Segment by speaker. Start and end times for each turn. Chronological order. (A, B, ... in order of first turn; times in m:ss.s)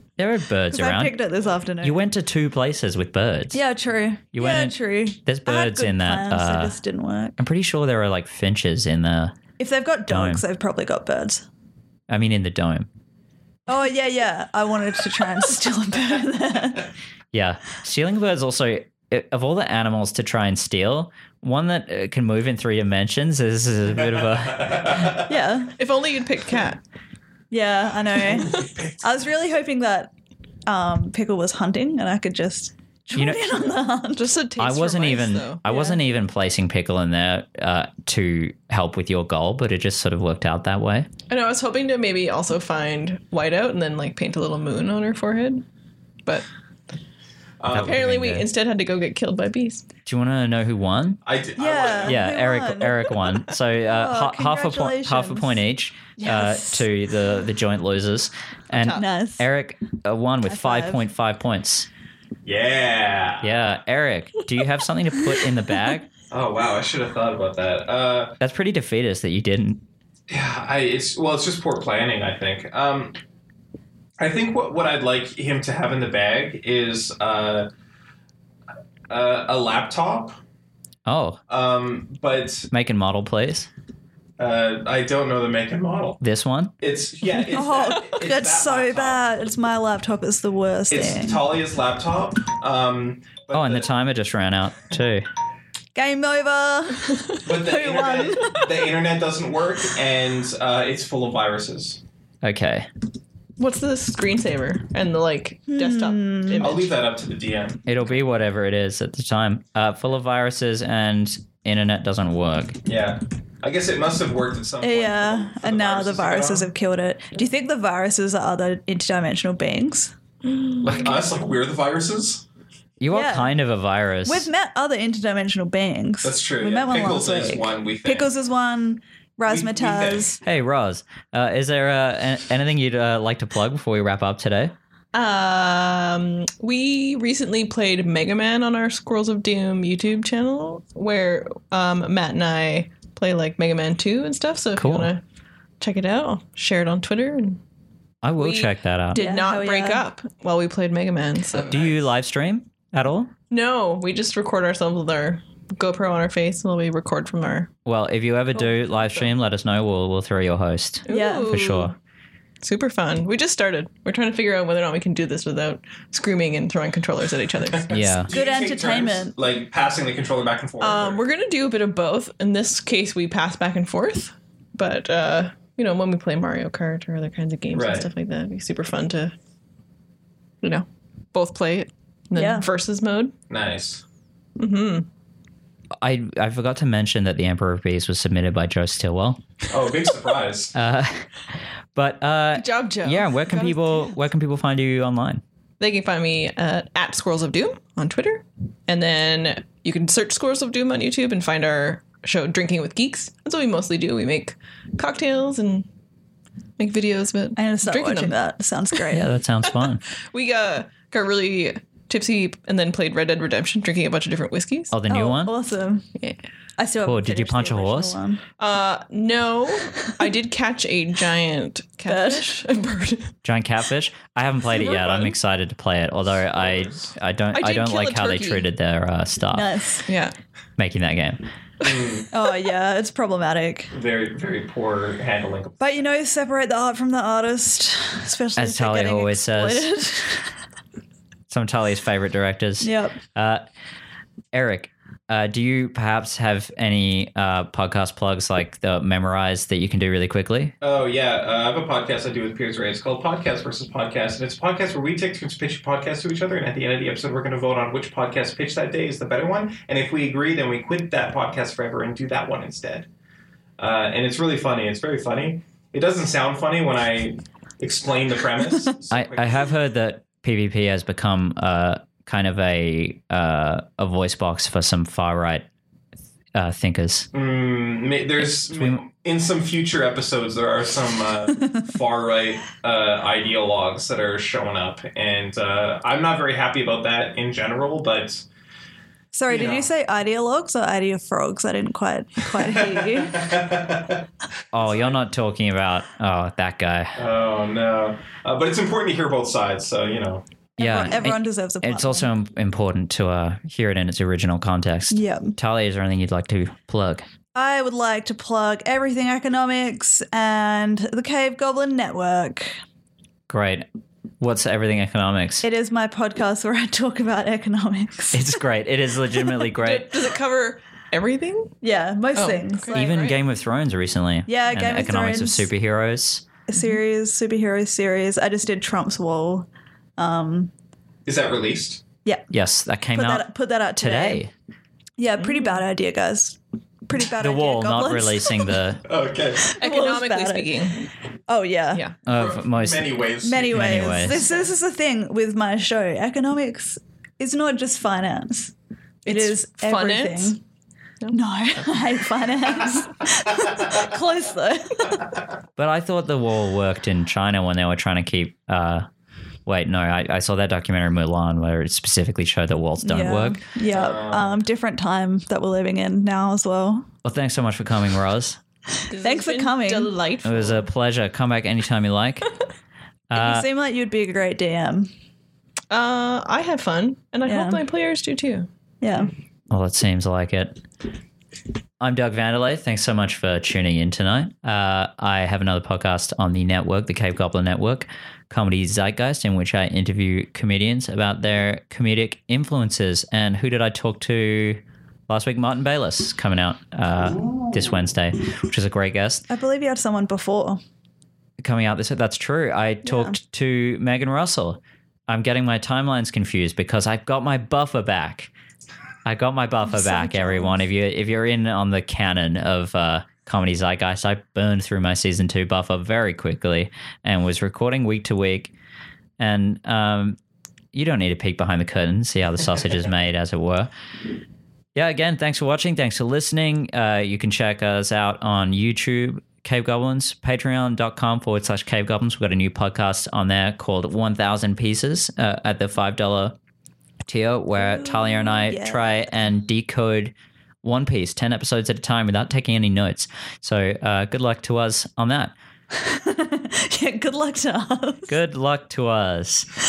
0:00.2-0:01.2 A
0:00.7-0:02.0 B
0:01.8-0:03.6 A
0:03.5-0:07.4 B
0:04.3-0:06.8 A
0:07.4-0:09.3 A
0:09.6-0:11.4 B
0:10.1-0:10.4 A
0:12.1-0:12.9 A
0:13.7-0:16.9 B
0:17.3-0:25.2 A
0:24.2-0:25.2 C
0:25.2-0:25.7 B
0:25.8-0:26.8 D
0:27.5-0:30.1 B
0:28.2-0:29.0 C
0:30.6-0:34.4 B
0:33.1-0:33.6 A
0:34.2-0:35.6 D
0:34.6-0:41.1 A
0:35.6-0:36.0 B
0:41.3-0:45.6 D
0:47.6-0:48.0 C
0:47.7-0:48.5 A
0:47.7-0:49.8 D
0:50.0-0:51.2 A
0:51.2-0:52.2 C
0:51.6-0:53.2 B
0:52.0-1:01.9 A
0:53.9-0:55.5 B
0:56.2-0:56.9 B
0:58.7-0:59.5 B
1:00.4-1:01.0 B
1:02.4-1:03.5 C
1:03.4-1:06.1 A
1:06.3-1:08.4 C
1:08.4-1:09.8 A
1:10.3-1:13.2 C
1:14.2-1:17.7 C
1:19.1-1:20.4 C
1:21.0-1:21.4 A
1:21.5-1:22.7 C
1:22.7-1:23.7 A
1:24.4-1:26.2 C
1:26.2-1:26.7 A
1:26.8-1:29.2 C
1:27.5-1:31.4 B
1:30.9-1:33.9 C
1:33.5-1:35.3 A
1:35.9-1:38.7 B
1:37.4-1:42.0 C
1:42.4-1:42.9 A
1:43.6-1:46.9 D
1:45.7-1:46.7 B
1:46.6-1:47.8 C
1:47.8-1:52.8 A
1:52.8-1:56.7 C
1:54.8-2:00.1 B
2:00.5-2:01.2 D
2:00.8-2:02.4 C
2:03.0-2:04.5 A
2:03.1-2:03.5 B
2:04.2-2:10.4 B
2:06.2-2:08.3 C
2:09.5-2:10.4 C
2:10.4-2:14.7 A
2:15.1-2:25.2 D
2:24.8-2:25.1 A
2:25.8-2:27.6 D
2:28.2-2:29.2 A
2:28.4-2:31.9 D
2:29.1-2:30.0 B
2:31.7-2:33.3 A
2:33.5-2:37.7 D
2:37.8-2:41.9 A
2:41.0-2:41.9 D
2:41.1-2:41.7 B
2:42.6-2:48.0 D
2:47.8-2:51.2 C
2:47.9-2:48.3 A
2:48.3-2:49.3 B
2:50.8-2:59.3 D
2:57.7-2:58.1 C
3:00.6-3:03.3 D
3:02.3-3:02.7 B
3:03.5-3:04.0 C
3:04.6-3:05.1 D
3:06.0-3:09.4 A
3:09.7-3:10.7 C
3:10.7-3:11.3 A
3:11.9-3:15.4 A
3:12.5-3:14.1 D
3:15.8-3:25.8 D
3:26.8-3:28.4 D
3:27.6-3:29.2 B
3:29.1-3:30.0 A
3:29.8-3:34.9 D
3:34.9-3:35.5 A
3:35.1-3:36.0 B
3:36.8-3:38.4 B
3:37.0-3:38.2 A
3:38.6-3:43.3 D
3:42.1-3:42.6 B
3:43.4-3:49.7 A
3:44.8-3:45.3 C
3:46.6-3:47.1 C
3:47.5-3:48.7 D
3:49.5-3:50.1 B
3:50.1-3:50.3 D
3:50.8-3:51.4 A
3:51.8-3:52.3 C
3:52.3-3:53.9 B
3:53.9-3:55.8 C
3:55.8-4:00.4 B
3:58.6-3:59.9 A
4:01.5-4:03.6 A
4:02.8-4:03.2 B
4:04.5-4:10.7 A
4:10.8-4:23.1 C
4:23.8-4:29.7 C
4:29.1-4:35.6 A
4:36.5-4:37.3 A
4:37.3-4:48.4 C
4:38.7-4:39.0 A
4:49.3-4:53.6 B
4:49.5-4:49.9 C
4:52.6-4:55.2 C
4:54.7-4:57.2 A
4:57.2-5:00.4 C
5:00.8-5:02.3 B
5:00.8-5:07.2 A
5:05.1-5:05.5 B
5:07.5-5:12.8 B
5:13.5-5:13.8 A
5:14.4-5:15.6 A
5:15.6-5:18.6 B
5:18.3-5:20.2 A
5:19.8-5:21.7 D
5:21.8-5:23.2 B
5:22.3-5:23.4 D
5:22.9-5:26.4 A
5:24.5-5:25.7 B
5:26.7-5:30.7 B
5:31.2-5:32.0 C
5:32.5-5:33.5 A
5:33.1-5:34.4 B
5:34.0-5:34.5 A
5:35.2-5:38.7 B
5:37.4-5:39.0 A
5:39.1-5:39.7 C
5:39.6-5:40.7 B
5:39.7-5:41.1 D
5:41.5-5:42.0 B
5:42.2-5:44.4 A
5:42.3-5:44.5 C
5:43.4-5:48.7 B
5:49.2-5:50.6 D
5:49.2-5:50.6 B
5:51.3-5:55.2 B
5:55.8-5:59.1 A
5:59.6-6:03.6 A
6:03.0-6:07.1 B
6:03.8-6:04.6 C
6:07.2-6:08.6 A
6:09.1-6:10.9 D
6:09.2-6:10.1 B
6:10.4-6:12.5 A
6:13.3-6:13.6 A
6:13.3-6:15.1 B
6:15.9-6:18.7 D
6:17.4-6:17.8 B
6:19.0-6:19.3 B
6:19.7-6:20.8 A
6:22.0-6:39.4 A
6:37.4-6:37.6 C
6:39.5-6:40.8 B
6:41.6-6:48.5 A
6:43.0-6:43.4 B
6:49.2-6:58.7 A
6:49.9-6:50.8 B
6:59.4-7:00.4 A
7:00.9-7:03.9 A
7:04.9-7:16.6 A
7:17.2-7:25.5 A
7:17.7-7:19.1 B
7:25.9-7:28.3 B
7:28.3-7:29.7 A